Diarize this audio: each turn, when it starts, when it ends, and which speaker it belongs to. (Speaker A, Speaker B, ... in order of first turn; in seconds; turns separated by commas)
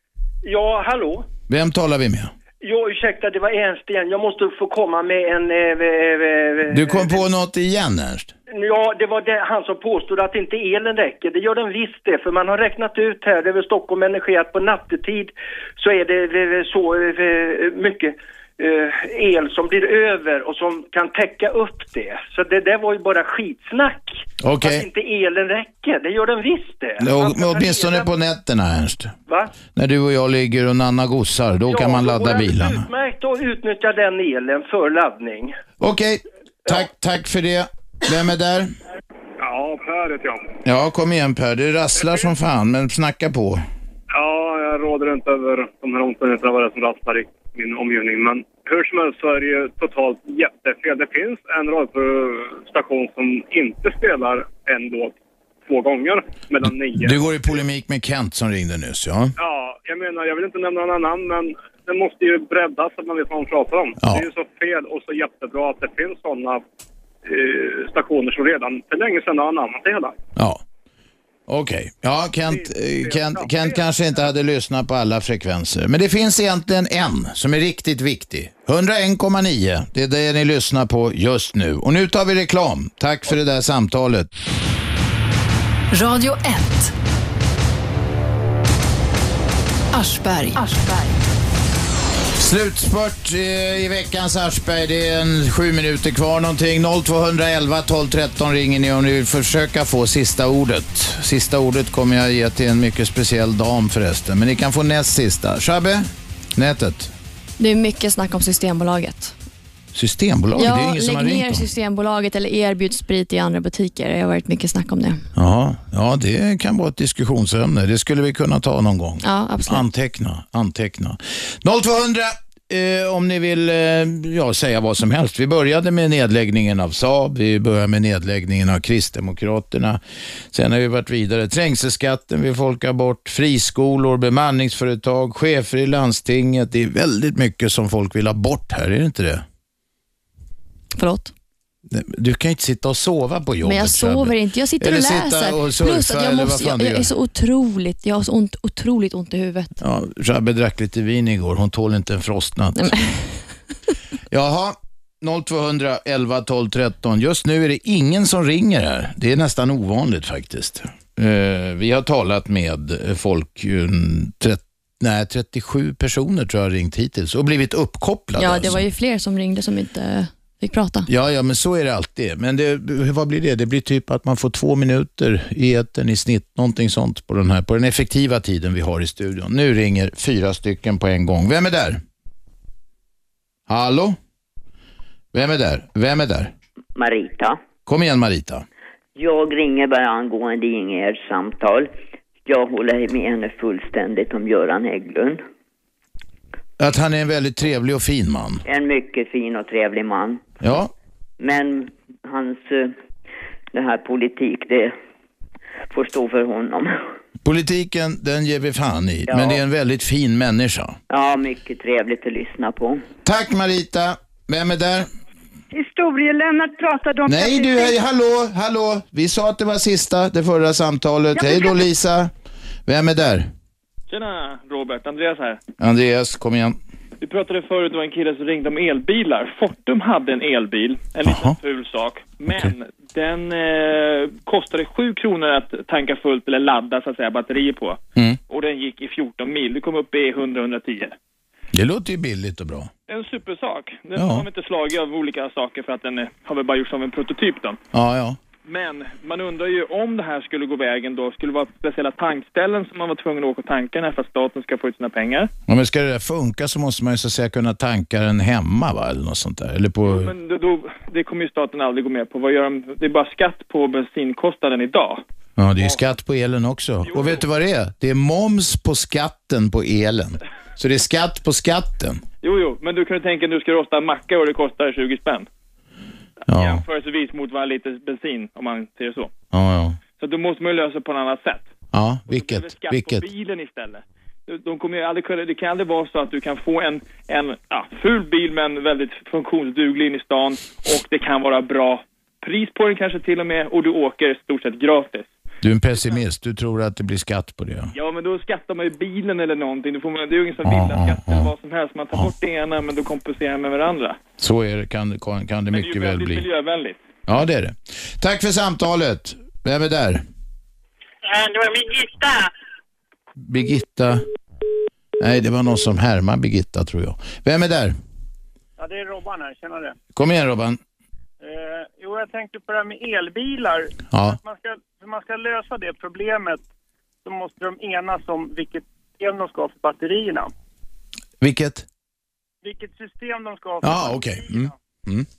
Speaker A: 0.4-1.3, Speaker B: 1.5-2.3, Speaker A: 2.6-7.2, Speaker B: 6.7-8.3, Speaker A: 8.5-28.1, Speaker B: 24.4-24.8, Speaker B: 27.0-29.1, Speaker A: 29.3-29.5, Speaker B: 29.7-32.9, Speaker A: 31.7-35.5, Speaker B: 35.8-38.7, Speaker C: 39.4-40.4, Speaker B: 40.6-43.6, Speaker C: 42.0-42.3, Speaker C: 44.1-57.3, Speaker B: 56.9-59.3, Speaker C: 59.4-66.6, Speaker C: 67.2-70.1, Speaker B: 70.3-70.6, Speaker B: 71.5-84.3, Speaker C: 72.4-73.8, Speaker D: 85.9-86.9, Speaker D: 89.9-91.3, Speaker B: 92.3-107.1, Speaker E: 107.6-109.3, Speaker B: 109.9-111.7, Speaker E: 110.5-115.2, Speaker B: 115.3-130.0, Speaker E: 119.2-119.8, Speaker B: 130.5-139.4, Speaker E: 141.0-141.3, Speaker B: 141.9-147.1, Speaker E: 143.6-149.7, Speaker B: 149.8-152.9, Speaker E: 152.8-153.4, Speaker B: 154.3-168.8, Speaker E: 168.4-171.1, Speaker B: 171.1-182.0, Speaker B: 183.7-184.2, Speaker B: 185.3-186.5, Speaker F: 186.9-187.6, Speaker B: 187.8-188.6, Speaker F: 189.2-191.9, Speaker F: 192.4-195.4, Speaker B: 196.8-198.6, Speaker F: 198.7-200.4, Speaker B: 200.6-200.9, Speaker F: 201.4-202.9, Speaker F: 203.7-204.9, Speaker F: 205.9-207.0, Speaker B: 207.4-211.0, Speaker F: 209.3-209.6, Speaker F: 211.1-213.0, Speaker B: 213.2-215.1, Speaker G: 215.7-218.0, Speaker B: 217.2-222.3, Speaker G: 221.3-221.8, Speaker B: 222.8-223.5, Speaker H: 224.1-225.6, Speaker B: 225.8-226.8, Speaker H: 227.2-241.1, Speaker B: 231.2-231.6, Speaker B: 241.7-242.9, Speaker H: 243.1-247.8, Speaker B: 244.1-244.4, Speaker B: 247.9-248.4, Speaker H: 248.6-255.5, Speaker B: 255.7-260.3, Speaker H: 260.0-265.2, Speaker B: 265.6-272.2, Speaker H: 267.0-267.4, Speaker H: 272.4-275.5, Speaker B: 276.5-276.8, Speaker H: 276.5-279.3, Speaker B: 279.5-280.0, Speaker H: 280.2-281.7, Speaker B: 281.9-283.2, Speaker H: 282.3-295.3, Speaker B: 295.6-297.9, Speaker H: 297.9-304.2, Speaker B: 300.6-301.5, Speaker B: 304.4-306.4, Speaker H: 305.7-307.0, Speaker B: 307.2-310.2, Speaker B: 313.4-314.2, Speaker B: 315.2-317.9, Speaker I: 318.8-319.9, Speaker B: 320.1-320.8, Speaker I: 321.4-326.6, Speaker B: 324.1-324.4, Speaker I: 327.2-330.5, Speaker B: 331.4-331.9, Speaker I: 332.6-334.7, Speaker B: 333.8-335.3